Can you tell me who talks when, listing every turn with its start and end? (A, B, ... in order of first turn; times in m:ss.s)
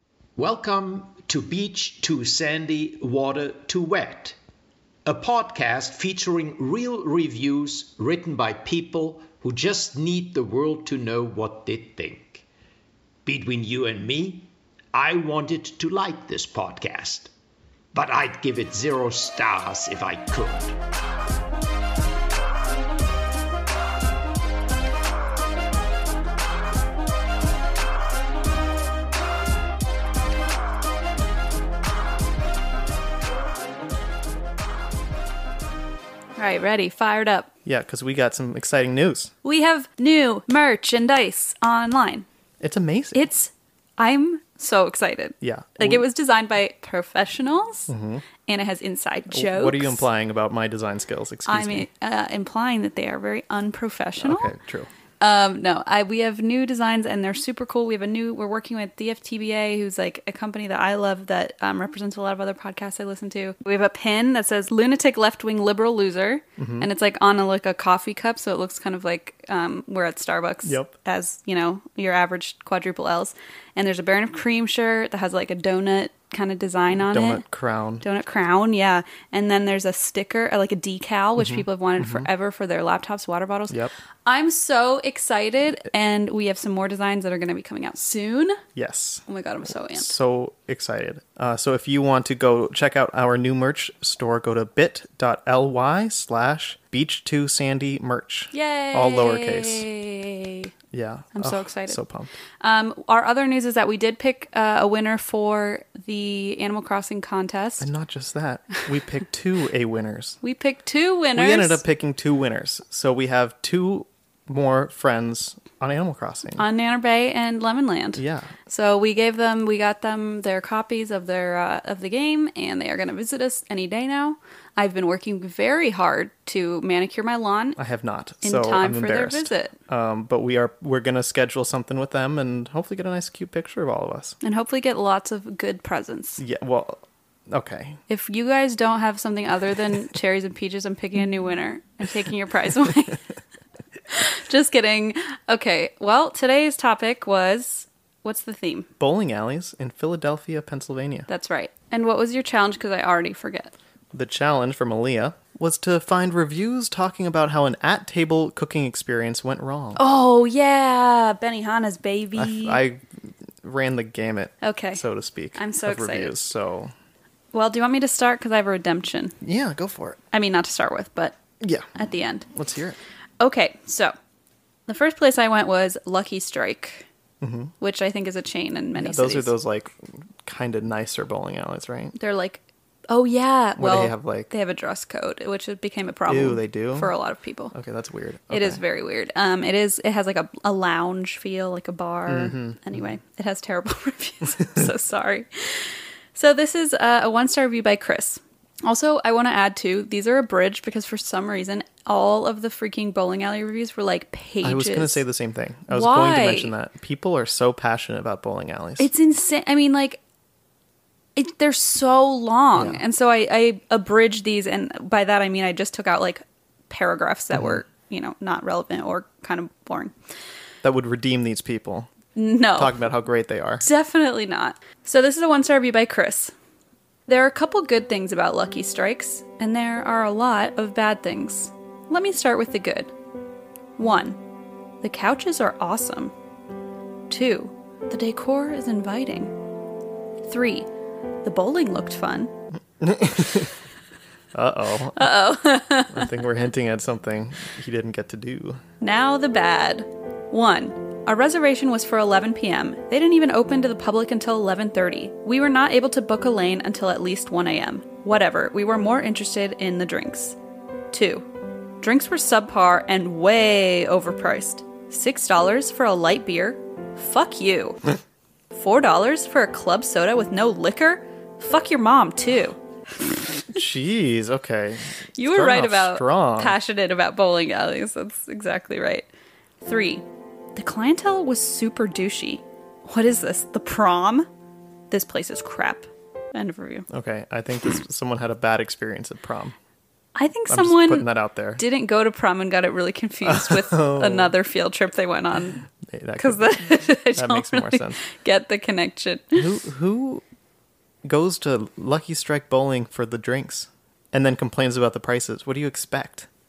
0:00.4-0:04.4 A
0:05.0-0:12.4 A
0:13.2-0:17.3 A
0:17.9-0:20.8 A
0:36.4-0:37.5 B
0:37.6-0:39.3 C
0:39.4-0:42.2 B
0:42.6-0:43.2 C
0:43.1-0:47.9 B
0:45.4-0:46.0 C
0:47.9-0:48.2 C
0:48.4-0:50.1 B
0:49.3-0:51.9 C
0:51.4-0:54.5 B
0:54.2-0:54.9 C
0:55.2-1:17.4 B
1:06.6-1:06.9 C
1:10.6-1:10.9 C
1:16.9-1:18.0 C
1:18.0-1:28.6 B
1:21.4-1:22.3 C
1:28.7-1:29.2 C
1:29.2-1:30.1 B
1:29.8-1:39.9 C
1:38.5-1:40.7 B
1:40.9-1:42.3 C
1:41.3-1:42.0 B
1:42.6-1:47.9 B
1:47.8-1:50.4 C
1:50.4-1:51.8 B
1:51.3-1:56.6 C
1:56.6-2:07.8 B
1:58.2-1:58.5 C
2:07.8-2:14.3 C
2:08.4-2:09.8 B
2:14.4-2:16.4 B
2:16.4-2:18.0 C
2:18.1-2:23.2 B
2:24.1-2:28.9 B
2:29.0-2:31.3 C
2:31.3-2:33.7 B
2:34.1-2:40.0 C
2:40.0-2:42.8 B
2:42.4-2:43.0 C
2:43.6-2:46.9 C
2:44.6-2:45.0 B
2:45.6-2:46.4 B
2:47.5-2:49.3 B
2:49.4-2:50.2 C
2:50.3-2:51.4 B
2:51.6-2:51.9 C
2:51.9-2:52.5 B
2:52.5-2:53.0 C
2:53.4-2:54.1 B
2:54.9-2:57.1 B
2:57.4-2:57.7 C
2:57.8-2:59.5 B
2:59.0-3:02.1 C
3:02.1-3:07.7 B
3:03.8-3:04.5 C
3:06.3-3:07.1 C
3:07.7-3:08.8 C
3:08.5-3:25.2 B
3:12.3-3:12.8 C
3:24.6-3:29.1 C
3:25.9-3:26.7 B
3:29.0-3:30.2 B
3:31.4-3:40.1 B
3:32.7-3:33.0 C
3:40.8-3:42.1 C
3:42.4-3:43.0 B
3:42.8-3:43.8 C
3:43.8-3:46.5 B
3:47.3-3:53.1 B
3:54.0-3:54.4 B
3:55.0-3:56.3 B
3:57.3-3:59.5 B
4:00.4-4:00.9 B
4:01.4-4:02.5 B
4:03.0-4:03.7 C
4:04.5-4:05.3 C
4:05.1-4:06.3 B
4:06.1-4:08.8 C
4:09.0-4:20.6 B
4:21.1-4:21.5 B
4:22.0-4:28.0 B
4:28.7-4:33.8 B
4:33.7-4:36.8 C
4:35.4-4:39.3 B
4:39.8-4:44.5 B
4:45.1-4:47.1 B
4:47.1-4:49.8 C
4:50.3-4:55.8 B
4:50.7-4:51.8 C
4:53.4-4:54.5 C
4:56.1-4:58.2 C
4:56.4-4:59.6 B
4:59.5-5:00.4 C
5:01.2-5:06.5 C